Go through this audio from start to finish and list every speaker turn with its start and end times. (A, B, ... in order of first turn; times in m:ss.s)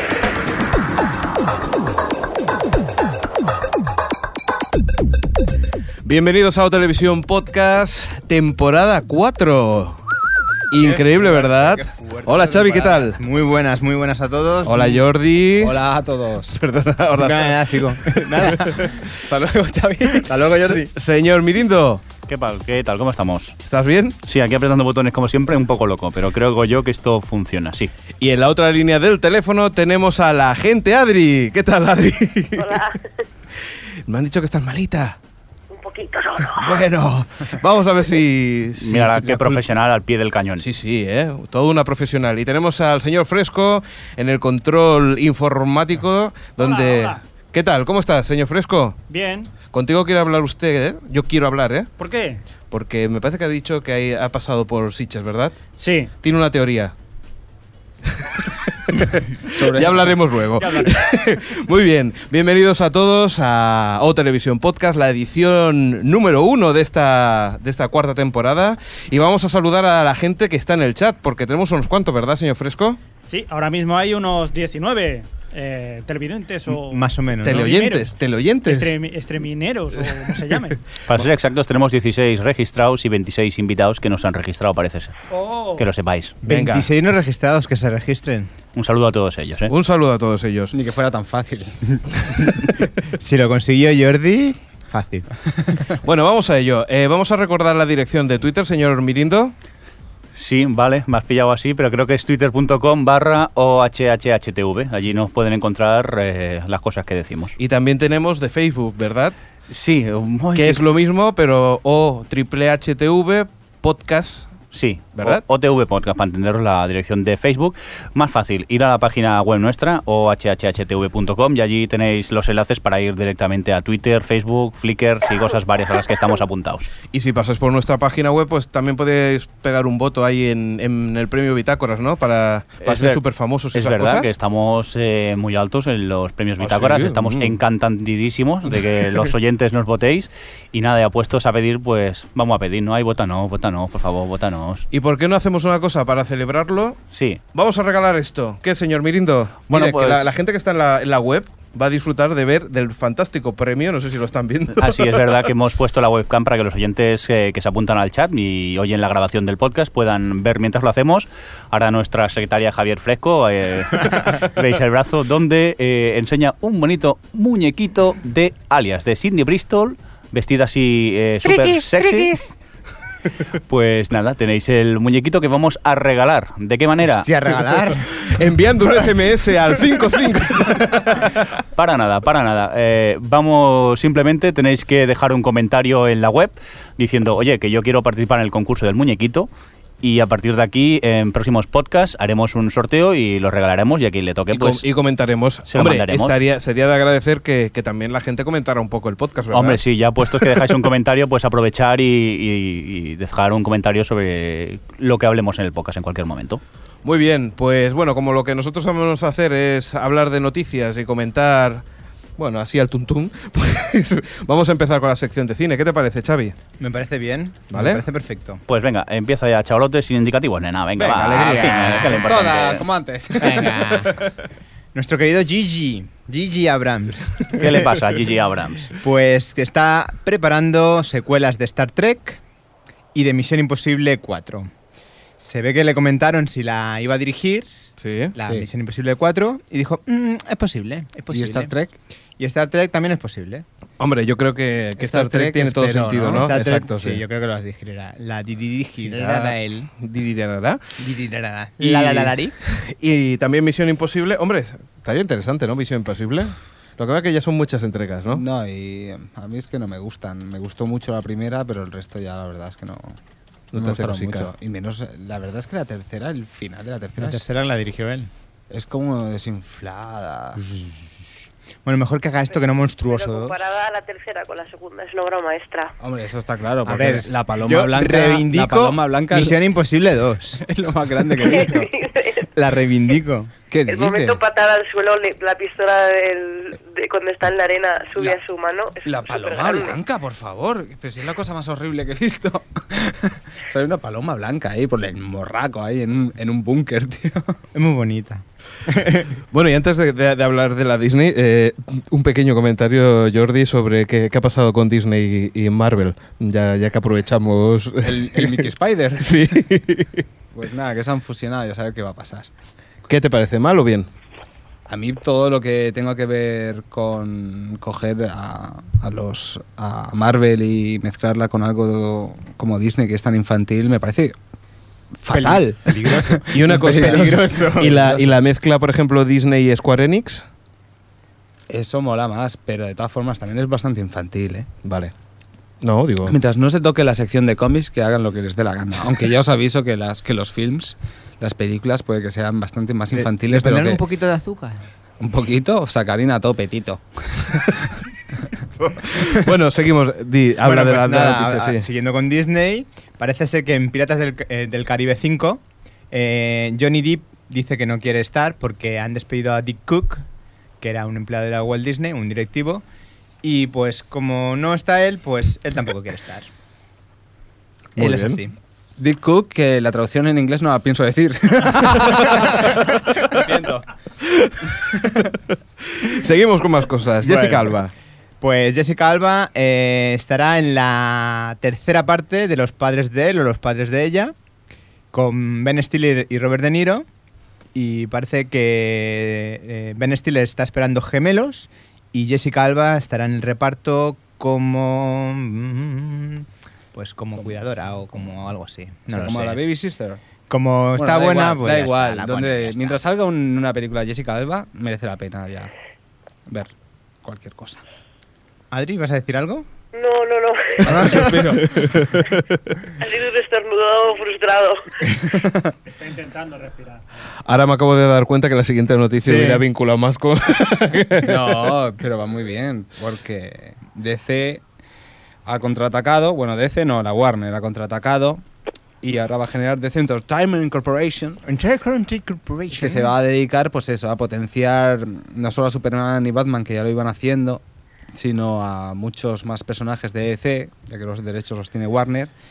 0:06.0-0:10.0 A
0:10.7-0:13.2 A
0:10.8-0:15.0 B
0:14.6-0:15.8 A
0:15.6-0:16.6 C
0:16.6-0:19.0 A
0:17.2-0:19.1 B
0:19.2-0:20.7 C
0:20.1-0:20.9 B
0:20.9-0:22.0 A
0:22.3-0:23.6 D
0:23.6-0:24.2 A
0:24.2-0:27.9 D
0:28.2-0:32.8 A
0:32.6-0:33.2 E
0:34.1-0:35.2 A
0:35.7-0:36.8 E
0:36.5-0:39.6 A
0:38.8-0:40.6 D
0:40.6-0:49.0 A
0:46.6-0:47.2 F
0:49.1-0:49.5 F
0:49.7-0:51.9 A
0:52.0-0:52.4 F
0:52.7-0:55.6 A
0:55.8-0:56.1 F
0:56.2-0:56.9 A
0:58.1-1:13.0 A
0:59.5-1:00.2 C
1:00.6-1:01.4 F
1:13.3-1:18.1 F
1:16.7-1:17.7 B
1:17.4-1:19.0 A
1:18.6-1:20.8 F
1:21.1-1:25.2 D
1:25.3-1:25.9 F
1:25.8-1:26.4 D
1:26.4-1:28.5 B
1:26.5-1:26.9 A
1:28.8-1:29.7 D
1:29.7-1:30.8 A
1:30.7-1:32.0 C
1:33.1-1:35.4 B
1:36.0-1:39.5 A
1:40.4-1:47.6 D
1:47.6-1:49.4 A
1:49.7-1:50.8 D
1:50.6-1:54.5 A
1:54.7-2:06.9 D
1:55.2-1:55.4 A
2:07.1-2:14.3 A
2:12.8-2:13.2 D
2:13.7-2:24.9 D
2:16.6-2:17.6 A
2:24.9-2:27.0 A
2:27.1-2:27.4 D
2:27.5-2:35.4 A
2:29.7-2:30.3 D
2:34.7-2:52.4 D
2:51.4-2:52.5 B
2:53.7-2:57.3 D
2:57.2-2:58.4 B
2:58.2-3:01.5 A
3:01.8-3:09.5 D
3:10.0-3:14.8 D
3:14.5-3:19.8 A
3:15.7-3:16.4 D
3:19.5-3:26.6 D
3:20.3-3:20.7 A
3:27.0-3:31.8 A
3:32.4-3:36.6 A
3:36.8-3:38.6 B
3:37.7-3:38.0 A
3:38.7-3:42.9 D
3:41.0-3:42.3 A
3:41.4-3:44.0 C
3:43.4-3:44.2 B
3:44.9-3:47.9 B
3:47.6-3:48.9 D
3:48.9-3:52.4 B
3:53.1-3:54.7 B
3:55.4-3:57.7 B
3:58.0-3:58.3 A
3:58.4-4:01.7 B
4:01.3-4:02.0 C
4:02.4-4:03.7 B
4:04.0-4:07.2 A
4:05.0-4:06.5 C
4:06.3-4:09.9 B
4:09.0-4:10.8 A
4:11.0-4:12.6 B
4:11.8-4:18.4 A
4:18.3-4:23.2 C
4:23.7-4:24.5 A
4:23.8-4:27.4 C
4:27.2-4:28.3 B
4:28.7-4:30.7 C
4:31.8-4:33.6 B
4:33.1-4:36.0 E
4:36.0-4:39.6 C
4:36.8-4:40.6 B
4:40.6-4:41.9 C
4:41.2-4:41.9 B
4:41.4-4:42.5 E
4:42.5-4:43.5 B
4:43.7-4:44.4 C
4:43.9-4:50.0 E
4:49.0-4:57.6 C
4:57.7-4:59.3 B
4:59.5-5:08.7 A
5:08.0-5:09.5 C
5:09.2-5:10.2 A
5:10.5-5:12.5 C
5:13.1-5:14.1 A
5:14.9-5:24.4 C
5:25.2-5:27.2 C
5:25.3-5:28.4 B
5:26.5-5:30.4 A
5:31.7-5:34.7 C
5:34.8-5:35.1 A
5:35.8-5:36.4 A
5:36.2-5:44.0 C
5:43.1-5:44.9 B
5:45.2-5:47.9 C
5:48.9-5:51.9 A
5:50.6-6:00.3 B
6:00.8-6:02.8 B
6:03.4-6:06.5 B
6:08.0-6:08.4 A
6:08.0-6:08.5 B
6:09.0-6:13.9 C
6:16.0-6:17.9 A
6:17.2-6:17.8 B
6:18.4-6:24.4 B
6:25.1-6:27.1 B
6:27.7-6:39.6 B
6:39.1-6:40.2 C
6:40.5-6:43.0 B
6:41.0-6:45.7 C
6:46.5-6:46.7 C
6:47.2-6:47.8 C
6:48.7-6:49.7 B
6:49.9-6:51.0 E
6:50.8-6:51.8 C
6:50.8-6:51.9 B
6:51.6-6:52.1 A
6:53.0-6:55.1 E
6:56.0-6:57.0 F
6:57.5-7:01.8 A
6:59.2-6:59.6 B
7:01.2-7:04.6 C
7:05.5-7:08.4 C
7:09.0-7:11.4 C
7:11.4-7:13.1 B
7:12.7-7:17.6 C
7:18.1-7:22.3 C